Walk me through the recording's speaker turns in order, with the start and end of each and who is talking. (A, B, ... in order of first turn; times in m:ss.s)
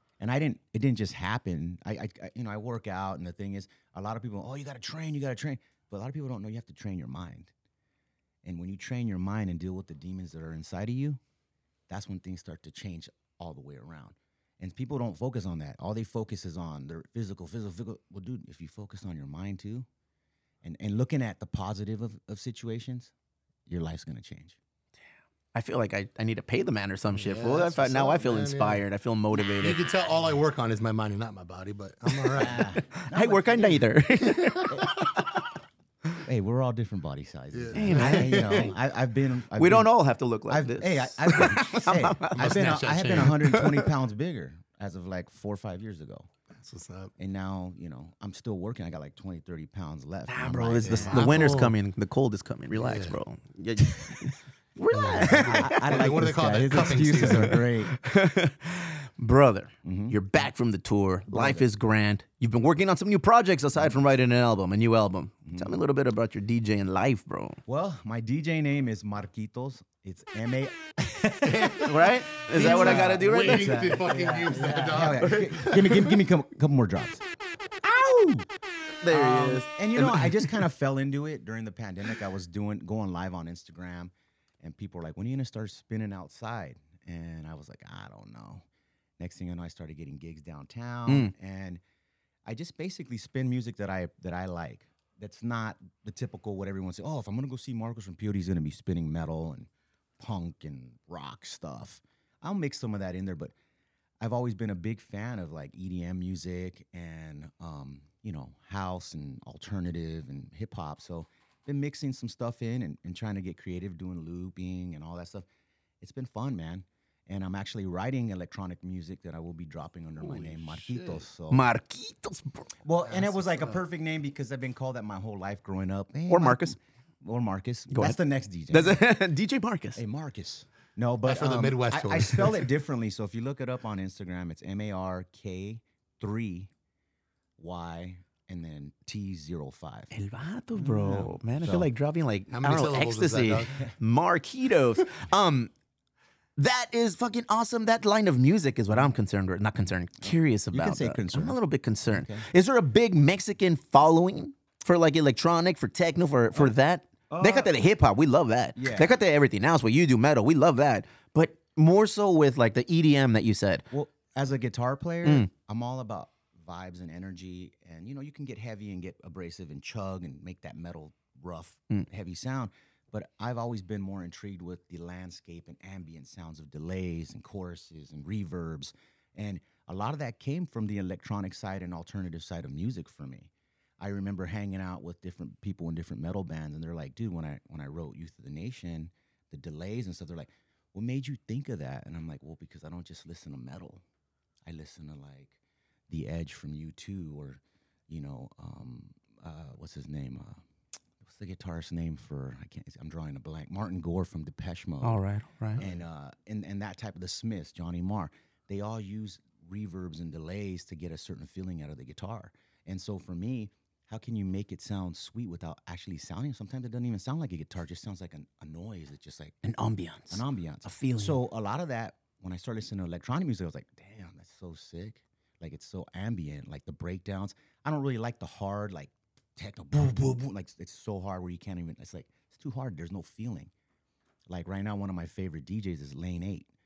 0:00.2-0:07.5 A
0:08.4-0:11.2 A
0:11.9-0:19.8 A
0:20.6-0:23.1 A
0:23.7-0:24.6 A
0:25.5-0:29.8 B
0:27.1-0:32.7 C
0:32.3-0:33.9 A
0:32.9-0:35.4 B
0:36.2-0:40.0 A
0:37.5-0:38.7 C
0:37.7-0:38.8 B
0:39.5-0:42.6 B
0:40.5-0:46.3 A
0:42.3-0:43.5 C
0:43.2-0:43.9 B
0:46.5-0:47.1 C
0:47.2-0:51.5 A
0:50.3-0:55.8 B
0:50.8-0:51.7 C
0:52.7-0:53.2 C
0:54.9-0:57.7 C
0:55.2-0:57.9 A
0:57.2-1:07.6 B
0:59.8-1:00.2 A
1:01.3-1:01.6 A
1:05.4-1:05.7 A
1:07.7-1:17.2 A
1:11.4-1:11.9 C
1:11.8-1:13.9 B
1:12.5-1:16.1 C
1:17.8-1:18.4 B
1:19.0-1:20.6 B
1:19.1-1:28.6 A
1:29.2-1:31.8 A
1:31.1-1:31.3 B
1:32.4-1:39.7 A
1:40.2-1:43.5 A
1:44.2-1:55.4 A
1:56.0-2:01.6 A
2:00.2-2:01.2 C
2:01.5-2:02.7 B
2:02.8-2:09.0 A
2:03.0-2:03.8 C
2:06.3-2:06.8 B
2:07.9-2:10.0 B
2:10.0-2:16.7 A
2:11.2-2:12.7 C
2:17.6-2:20.1 A
2:20.1-2:25.7 B
2:20.8-2:21.9 A
2:22.5-2:23.8 C
2:26.6-2:43.8 B
2:30.2-2:32.4 A
2:37.3-2:37.7 A
2:38.7-2:39.2 A
2:43.9-3:14.0 A
2:45.2-2:45.5 B
3:14.6-3:15.5 A
3:16.1-3:20.6 A
3:21.2-3:25.2 A
3:25.0-3:25.8 B
3:25.8-3:39.6 A
3:39.6-3:41.4 B
3:40.3-3:53.7 A
3:54.5-3:56.7 A